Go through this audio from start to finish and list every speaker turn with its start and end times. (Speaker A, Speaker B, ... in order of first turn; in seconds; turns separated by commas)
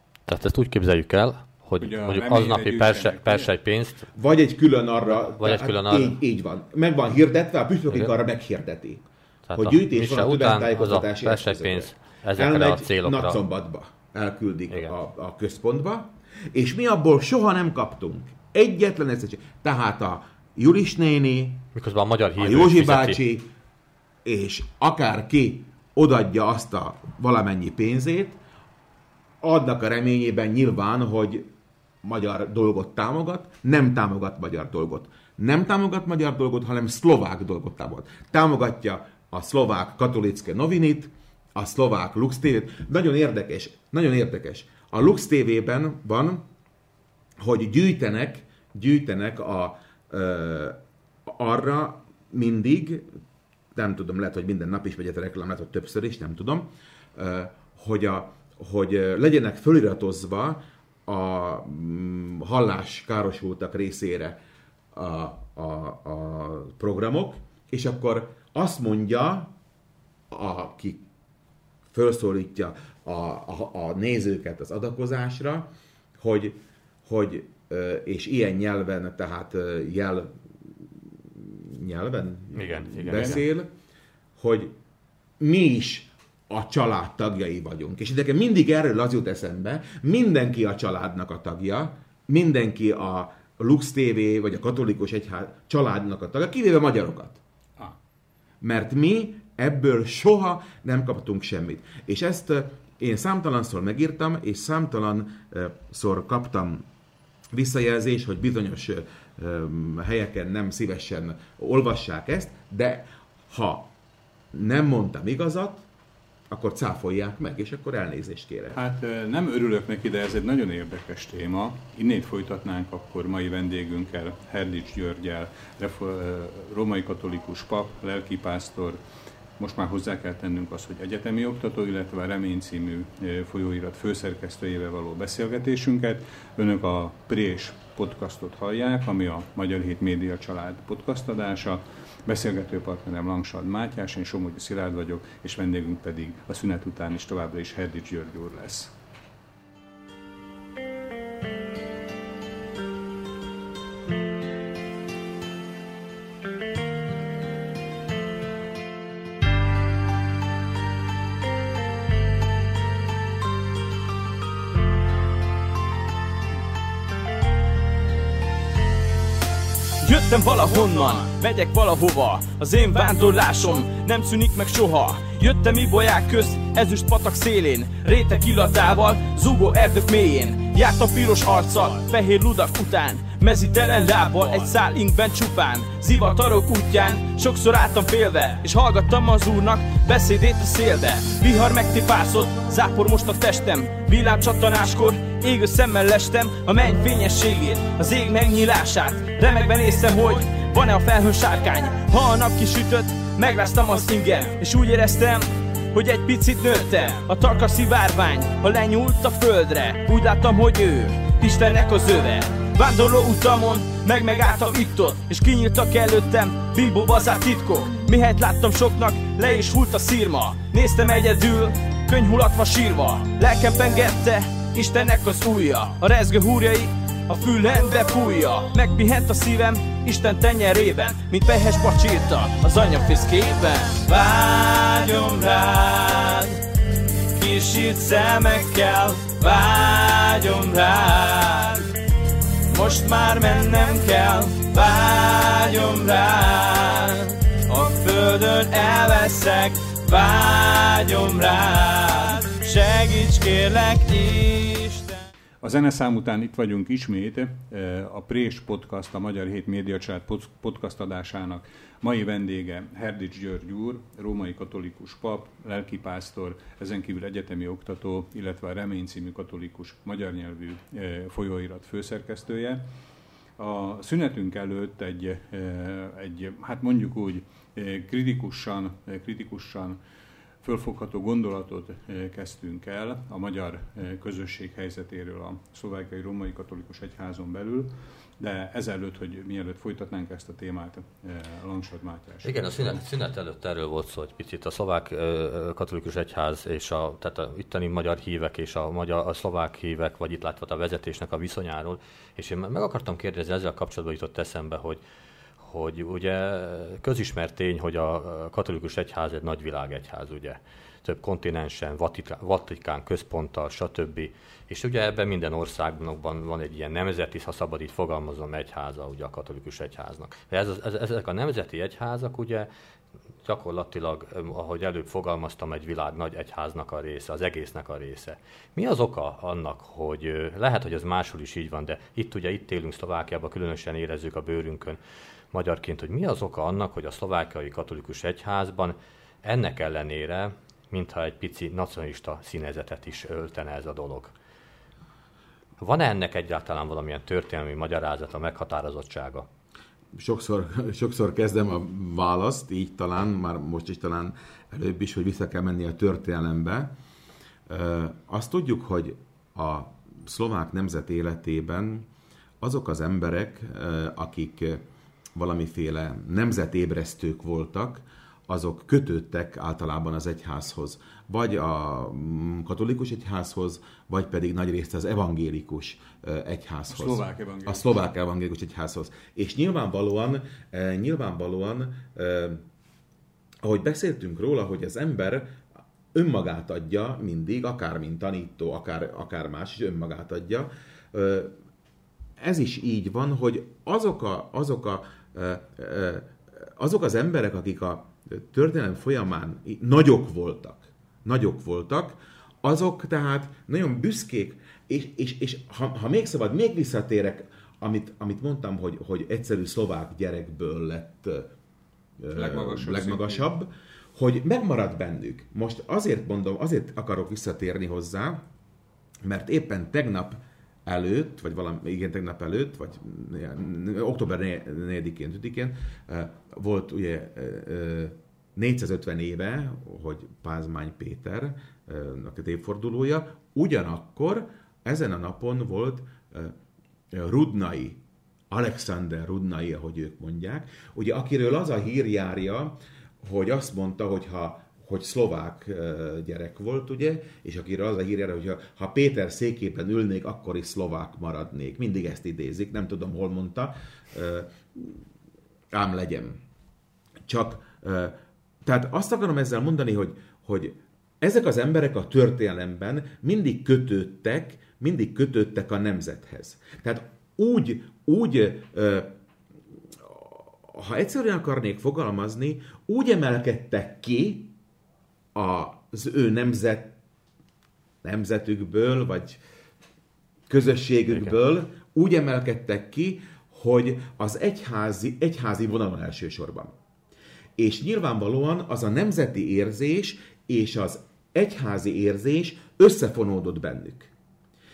Speaker A: 0.3-4.1, Speaker B: 1.8-3.5, Speaker C: 4.1-9.0, Speaker A: 5.1-6.2, Speaker A: 9.5-13.4, Speaker C: 9.6-21.7, Speaker A: 21.7-23.2, Speaker C: 22.4-23.5, Speaker C: 24.2-28.4, Speaker C: 29.4-31.5, Speaker C: 32.0-46.5, Speaker C: 47.4-53.1, Speaker C: 53.7-64.4, Speaker C: 64.9-69.5, Speaker C: 70.3-71.1, Speaker C: 71.9-83.7, Speaker A: 82.5-83.5, Speaker C: 84.4-84.7, Speaker C: 85.4-97.4, Speaker C: 98.6-106.8, Speaker C: 107.5-113.9, Speaker C: 114.5-115.9, Speaker C: 116.5-118.8, Speaker B: 118.7-129.0, Speaker B: 129.6-148.9, Speaker D: 170.0-236.6, Speaker D: 237.3-241.9, Speaker D: 242.7-255.2, Speaker B: 255.6-272.8, Speaker B: 273.6-280.0, Speaker B: 280.6-293.0, Speaker A: 292.4-305.0, Speaker A: 305.6-322.7, Speaker A: 323.4-335.0, Speaker A: 335.5-344.3, Speaker A: 345.8-349.5, Speaker C: 350.1-356.9, Speaker C: 357.7-362.1, Speaker C: 362.6-364.9, Speaker C: 365.4-382.6, Speaker B: 376.9-378.1, Speaker C: 383.6-385.6, Speaker C: 386.1-391.5, Speaker C: 392.4-411.5, Speaker C: 412.2-418.4, Speaker B: 412.3-413.5, Speaker C: 419.2-436.6, Speaker C: 437.1-455.0, Speaker C: 455.7-456.4, Speaker C: 457.3-469.1, Speaker C: 469.9-474.5, Speaker C: 475.4-476.9, Speaker C: 478.0-479.4, Speaker C: 480.5-486.7, Speaker C: 487.6-494.1